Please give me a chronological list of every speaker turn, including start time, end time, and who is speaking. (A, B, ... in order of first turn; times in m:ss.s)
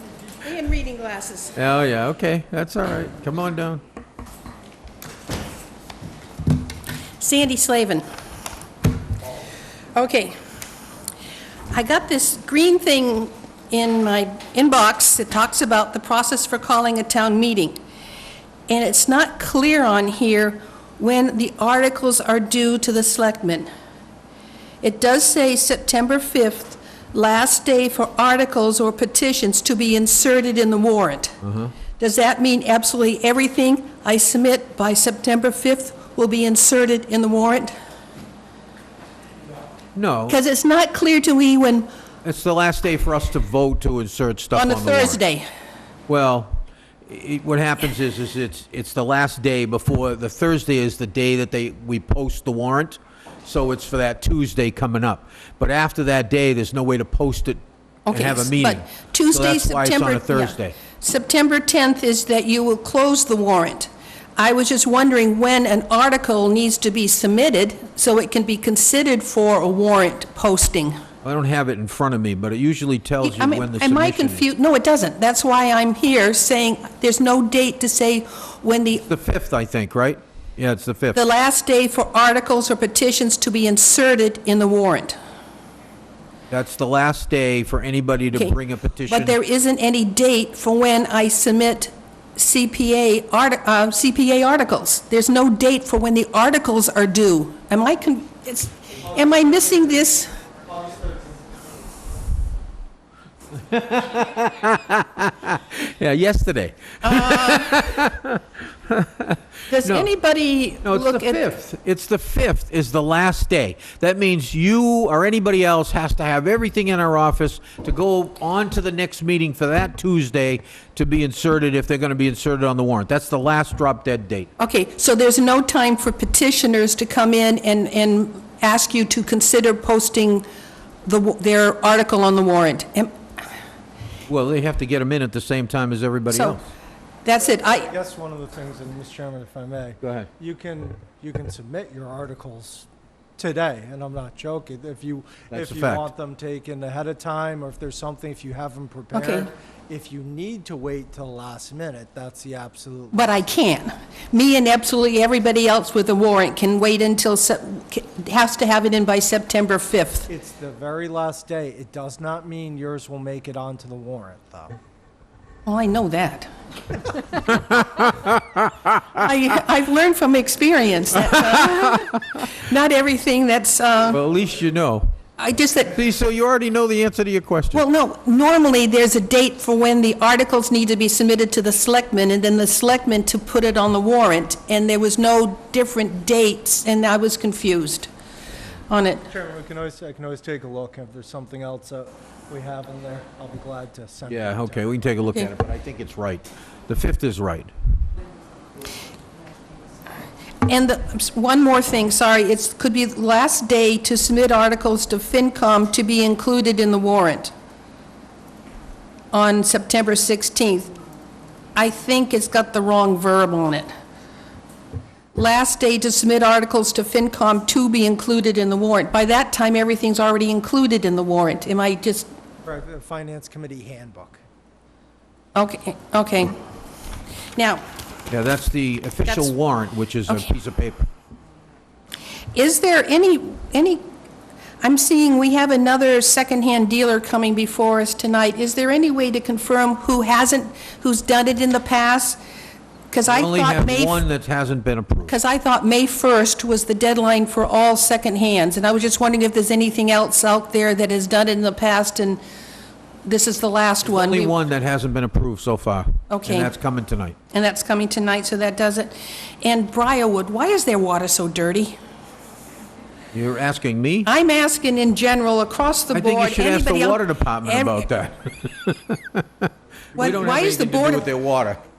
0:00.4-0:01.5 A
0:01.5-0:03.8 B
0:07.2-0:08.0 A
0:09.9-0:10.4 A
0:11.7-0:17.8 A
0:18.7-0:23.7 A
0:24.8-0:31.4 A
0:31.4-0:31.7 B
0:32.0-0:37.7 A
0:39.9-0:40.4 B
0:40.3-0:41.9 A
0:42.2-0:45.2 B
0:44.5-0:45.4 A
0:46.1-1:00.8 B
0:58.1-1:11.0 A
1:11.2-1:14.4 B
1:13.2-1:19.0 A
1:19.0-1:21.2 B
1:21.1-1:25.2 A
1:26.5-1:29.4 B
1:29.1-1:40.3 A
1:39.0-1:40.0 C
1:40.5-1:41.7 C
1:43.7-1:50.1 B
1:47.0-1:47.7 A
1:49.7-1:51.4 A
1:50.8-2:04.5 B
2:04.6-2:10.4 A
2:11.0-2:13.1 A
2:14.3-2:16.6 B
2:16.3-2:16.6 A
2:17.2-2:17.9 A
2:17.6-2:22.8 C
2:20.0-2:20.3 B
2:23.4-2:33.4 C
2:25.5-2:26.1 B
2:29.1-2:29.5 A
2:33.1-2:40.3 A
2:40.3-2:44.8 C
2:45.6-2:46.5 A
2:47.5-2:48.6 B
2:49.2-2:54.2 A
2:54.1-2:55.1 B
2:55.4-2:55.9 A
2:55.8-2:57.8 B
2:57.7-3:08.1 A
3:08.9-3:09.2 A
3:09.2-3:14.9 C
3:14.3-3:17.7 B
3:20.6-3:27.5 A
3:29.3-3:30.9 A
3:31.8-3:33.9 A
3:35.3-3:42.3 A
3:42.6-3:44.4 C
3:45.5-3:46.6 A
3:47.6-3:47.8 A
3:48.3-3:51.1 B
3:50.3-3:50.5 A
3:52.5-3:54.0 A
3:54.8-4:02.4 A
4:03.1-4:04.2 A
4:03.3-4:05.4 B
4:05.3-4:12.4 A
4:13.2-4:14.5 A
4:14.0-4:17.4 B
4:16.3-4:16.7 A
4:17.5-4:22.0 A
4:23.3-4:24.3 B
4:24.2-4:28.1 A
4:26.1-4:29.4 B
4:30.1-4:31.8 B
4:30.2-4:31.3 A